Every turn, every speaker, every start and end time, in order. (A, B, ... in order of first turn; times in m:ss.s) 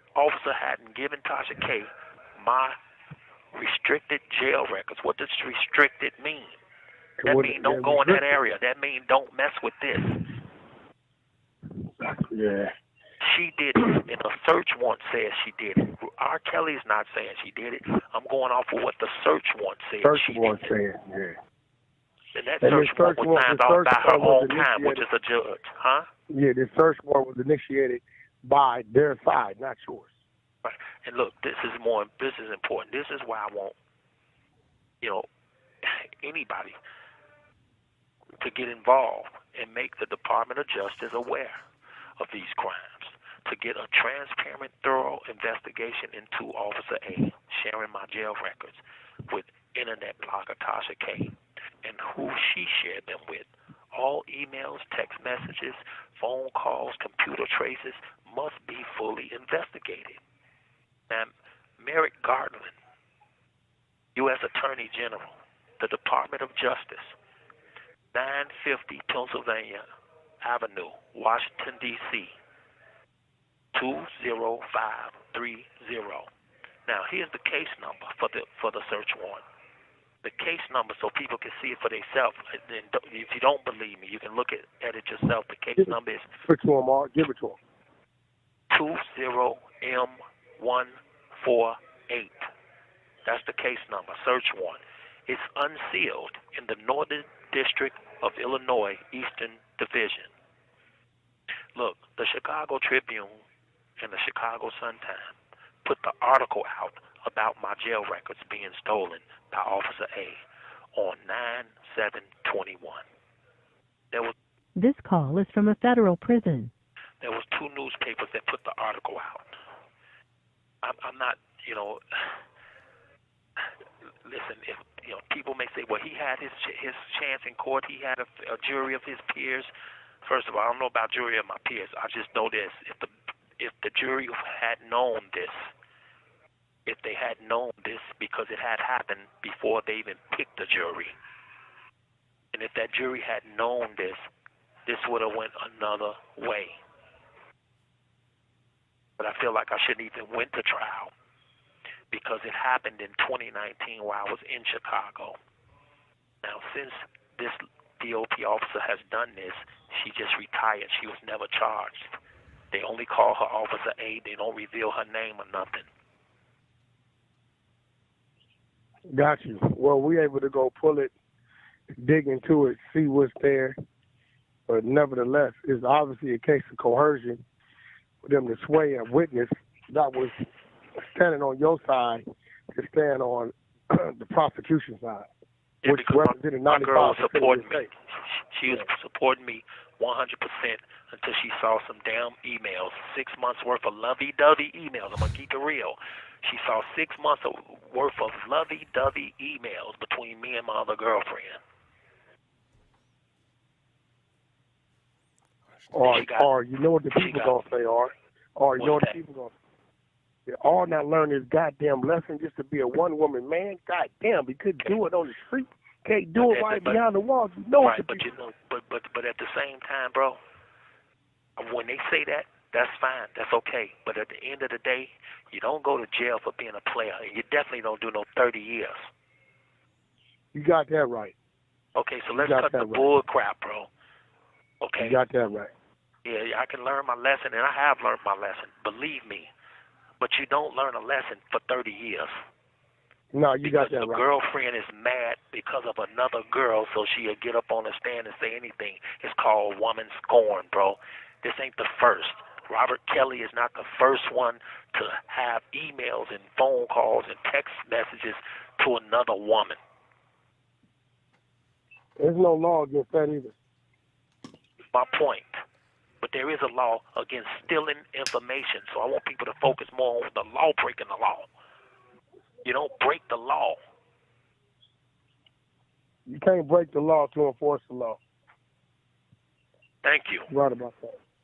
0:00.2-0:02.8 A
0:03.5-0:06.6 A
0:07.2-0:08.3 B
0:07.2-0:10.2 A
0:12.0-0:12.7 B
0:13.2-0:20.7 A
0:20.0-0:21.4 B
0:22.3-0:26.1 A
0:22.6-0:25.0 B
0:26.3-0:30.1 B
0:30.6-0:33.8 A
0:35.0-0:35.3 A
0:35.8-0:36.8 A
0:38.4-0:41.6 A
0:42.2-1:00.2 A
1:01.1-1:02.7 A
1:04.2-1:07.2 A
1:08.1-1:09.8 A
1:10.4-1:12.3 A
1:13.7-1:16.3 A
1:16.9-1:19.4 A
1:20.2-1:26.3 A
1:25.8-1:27.6 B
1:28.7-1:32.5 A
1:33.2-1:40.3 A
1:41.8-1:43.4 A
1:44.0-1:50.4 A
1:51.0-1:53.0 A
1:54.8-1:56.7 C
1:57.2-1:59.5 A
2:00.8-2:02.0 A
2:04.2-2:09.7 A
2:10.2-2:15.7 A
2:16.9-2:21.1 A
2:22.5-2:24.2 A
2:24.9-2:26.8 A
2:29.2-2:31.1 A
2:32.1-2:35.4 A
2:36.4-2:42.1 A
2:42.7-2:45.9 A
2:49.1-2:51.1 B
2:52.0-2:53.8 B
2:54.7-2:57.4 B
2:58.2-3:00.4 B
3:01.0-3:05.3 B
3:05.8-3:21.6 A
3:05.8-3:07.9 B
3:25.9-3:29.6 B
3:26.0-3:26.5 A
3:27.1-3:27.6 A
3:28.8-3:29.2 A
3:30.5-3:38.2 B
3:36.4-3:37.0 A
3:37.8-3:40.4 A
3:41.6-3:49.1 A
3:50.5-3:51.4 B
3:52.0-3:53.9 A
3:52.3-3:53.1 B
3:54.8-3:55.2 A
3:55.0-3:55.7 B
3:56.2-3:59.5 A
4:00.2-4:02.3 A
4:03.3-4:04.2 B
4:03.6-4:19.8 A
4:22.2-4:23.6 B
4:24.9-4:25.6 A
4:26.2-4:31.5 A
4:32.6-4:33.8 A
4:36.3-4:38.2 B
4:40.0-4:40.5 A
4:40.5-4:41.2 B